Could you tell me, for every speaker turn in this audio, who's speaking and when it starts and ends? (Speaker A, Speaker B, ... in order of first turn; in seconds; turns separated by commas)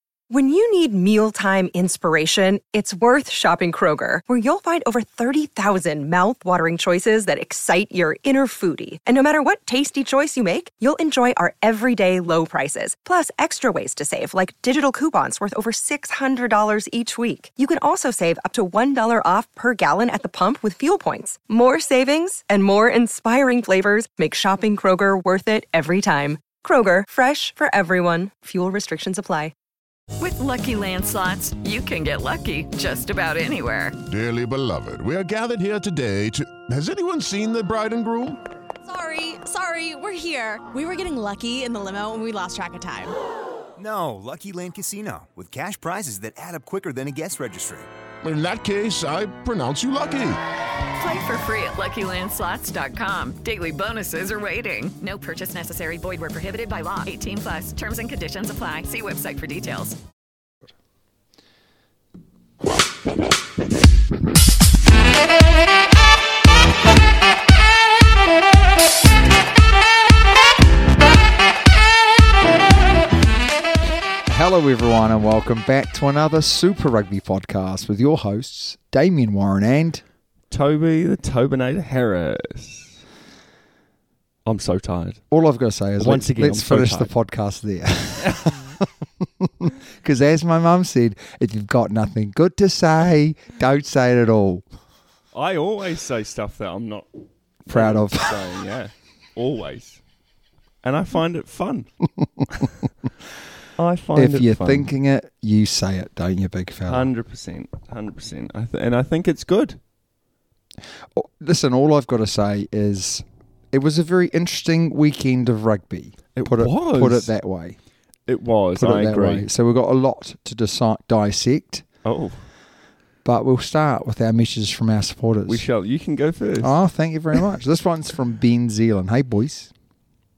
Speaker A: 0.3-29.5, Speaker B: 30.2-34.0, Speaker C: 34.1-38.4, Speaker D: 38.8-43.1, Speaker E: 43.8-47.9, Speaker C: 48.2-50.4, Speaker B: 51.0-60.0, Speaker F: 74.3-80.0, Speaker G: 80.5-83.0, Speaker G: 84.5-85.2, Speaker F: 85.3-88.6, Speaker G: 86.0-87.1, Speaker G: 88.2-88.6, Speaker F: 89.4-94.7, Speaker G: 95.3-97.1, Speaker F: 97.7-98.4, Speaker G: 97.7-100.0, Speaker G: 100.8-101.9, Speaker G: 103.8-104.9, Speaker F: 104.2-107.1, Speaker G: 106.9-109.8, Speaker F: 111.2-117.8, Speaker G: 116.4-117.3, Speaker G: 118.3-119.5, Speaker F: 118.8-121.9, Speaker G: 122.0-122.4, Speaker F: 123.2-125.7, Speaker G: 125.5-126.7, Speaker F: 126.6-129.7